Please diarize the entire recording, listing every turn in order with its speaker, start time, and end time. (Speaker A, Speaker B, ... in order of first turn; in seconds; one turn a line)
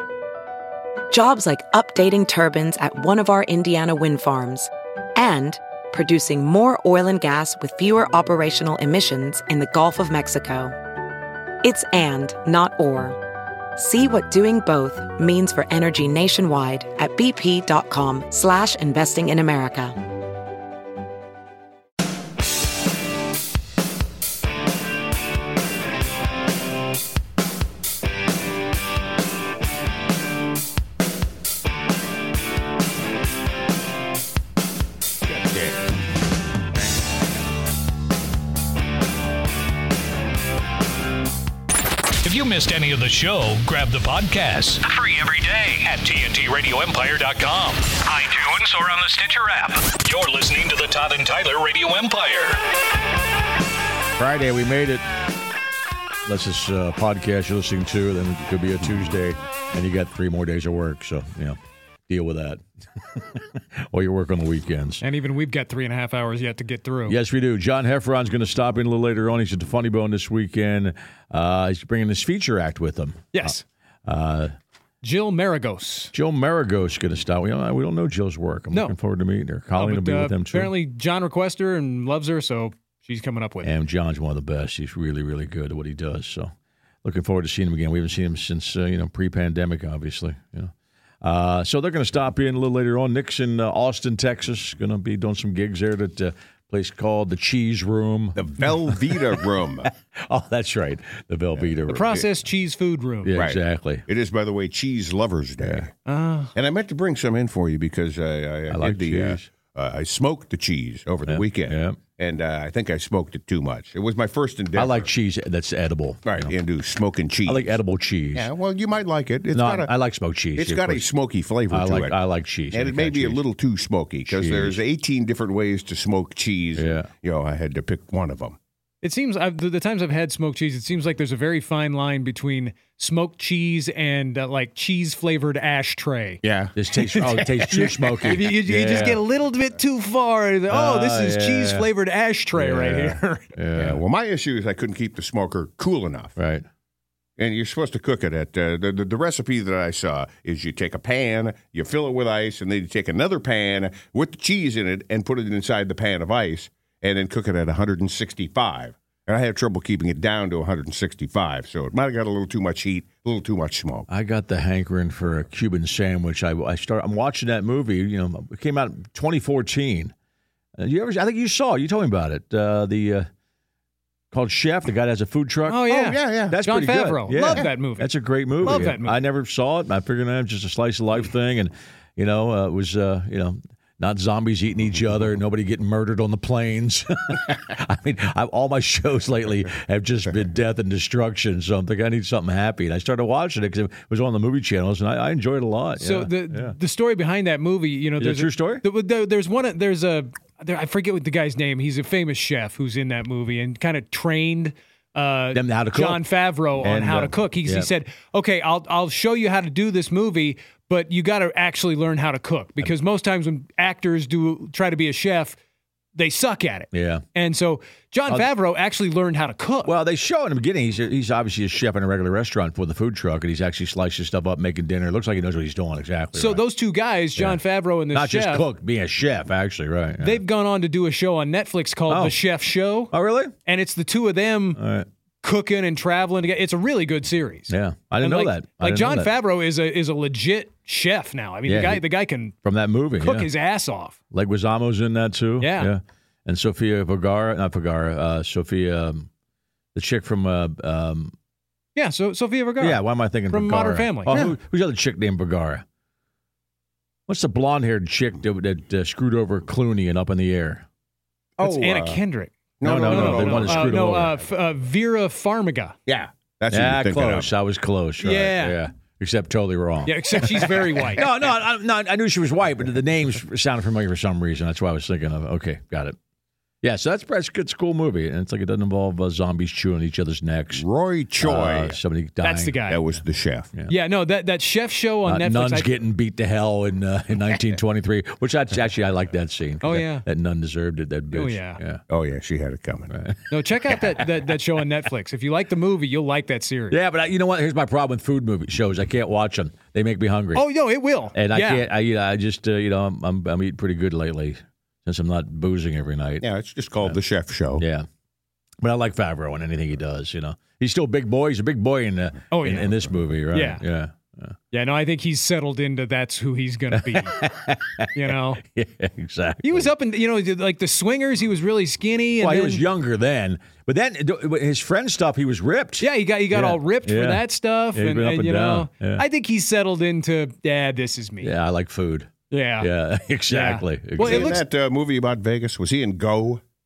Speaker A: 1.1-10.7
Speaker A: 11.6-13.2
Speaker A: 13.8-19.9
Speaker B: 42.2-52.6
Speaker C: 54.2-55.0
Speaker C: 56.2-65.0
Speaker D: 65.0-67.2
Speaker C: 67.1-74.5
Speaker D: 73.3-73.6
Speaker D: 75.0-76.1
Speaker C: 76.1-80.7
Speaker D: 79.8-83.7
Speaker C: 83.6-86.5
Speaker C: 87.0-99.3
Speaker E: 98.4-99.9
Speaker C: 100.0-102.3
Speaker D: 101.9-103.3
Speaker C: 103.2-104.0
Speaker E: 103.3-105.9
Speaker D: 106.1-106.5
Speaker E: 106.5-115.1
Speaker C: 108.7-109.5
Speaker C: 111.3-112.0
Speaker C: 114.8-116.5
Speaker E: 116.3-117.8
Speaker C: 117.5-118.5
Speaker E: 118.3-119.9
Speaker C: 119.5-121.1
Speaker E: 120.6-122.2
Speaker C: 121.7-123.4
Speaker E: 122.7-128.6
Speaker C: 124.3-124.8
Speaker C: 126.8-127.1
Speaker D: 129.0-136.4
Speaker E: 136.4-138.3
Speaker C: 136.8-139.2
Speaker D: 137.7-143.5
Speaker C: 140.7-141.9
Speaker C: 142.5-144.0
Speaker E: 143.8-146.3
Speaker C: 146.4-146.7
Speaker E: 147.4-164.1
Speaker C: 164.1-170.1
Speaker C: 170.8-173.3
Speaker C: 174.3-196.8
Speaker D: 175.7-178.1
Speaker E: 175.9-176.6
Speaker D: 178.6-179.2
Speaker D: 196.0-215.6
Speaker C: 198.2-198.8
Speaker C: 205.5-206.2
Speaker C: 206.8-207.9
Speaker D: 216.2-219.9
Speaker C: 216.9-217.2
Speaker C: 219.8-226.6
Speaker D: 226.4-228.7
Speaker C: 227.4-227.6
Speaker C: 228.1-230.4
Speaker D: 230.2-233.1
Speaker C: 232.1-232.4
Speaker C: 233.1-233.5
Speaker D: 233.7-234.8
Speaker C: 234.8-235.1
Speaker D: 235.4-242.6
Speaker C: 237.7-239.3
Speaker C: 241.7-242.0
Speaker C: 242.7-243.5
Speaker D: 243.2-244.2
Speaker C: 244.3-249.3
Speaker D: 245.6-245.9
Speaker C: 249.9-251.3
Speaker D: 252.0-254.3
Speaker C: 252.8-255.8
Speaker E: 254.3-254.6
Speaker C: 257.3-260.9
Speaker E: 261.6-262.2
Speaker D: 261.6-265.9
Speaker E: 262.8-264.3
Speaker C: 262.8-264.4
Speaker E: 266.1-267.5
Speaker C: 266.7-276.2
Speaker D: 268.2-268.8
Speaker D: 270.1-271.3
Speaker C: 276.8-280.9
Speaker E: 280.7-282.0
Speaker C: 281.4-282.8
Speaker D: 282.4-283.0
Speaker E: 282.9-283.7
Speaker D: 283.9-285.9
Speaker C: 285.2-292.0
Speaker D: 289.8-290.2
Speaker D: 291.3-291.8
Speaker E: 292.1-293.1
Speaker C: 293.1-294.3
Speaker D: 293.5-297.0
Speaker C: 296.9-300.6
Speaker D: 300.6-301.9
Speaker C: 301.3-306.4
Speaker E: 306.4-307.9
Speaker C: 307.8-308.1
Speaker C: 308.8-314.6
Speaker D: 312.5-313.8
Speaker D: 314.7-317.4
Speaker C: 316.9-319.9
Speaker D: 318.1-318.6
Speaker D: 319.6-322.9
Speaker C: 322.4-327.4
Speaker D: 326.0-331.5
Speaker C: 327.9-329.2
Speaker C: 331.4-334.6
Speaker D: 332.5-332.9
Speaker D: 333.5-334.6
Speaker E: 334.2-336.6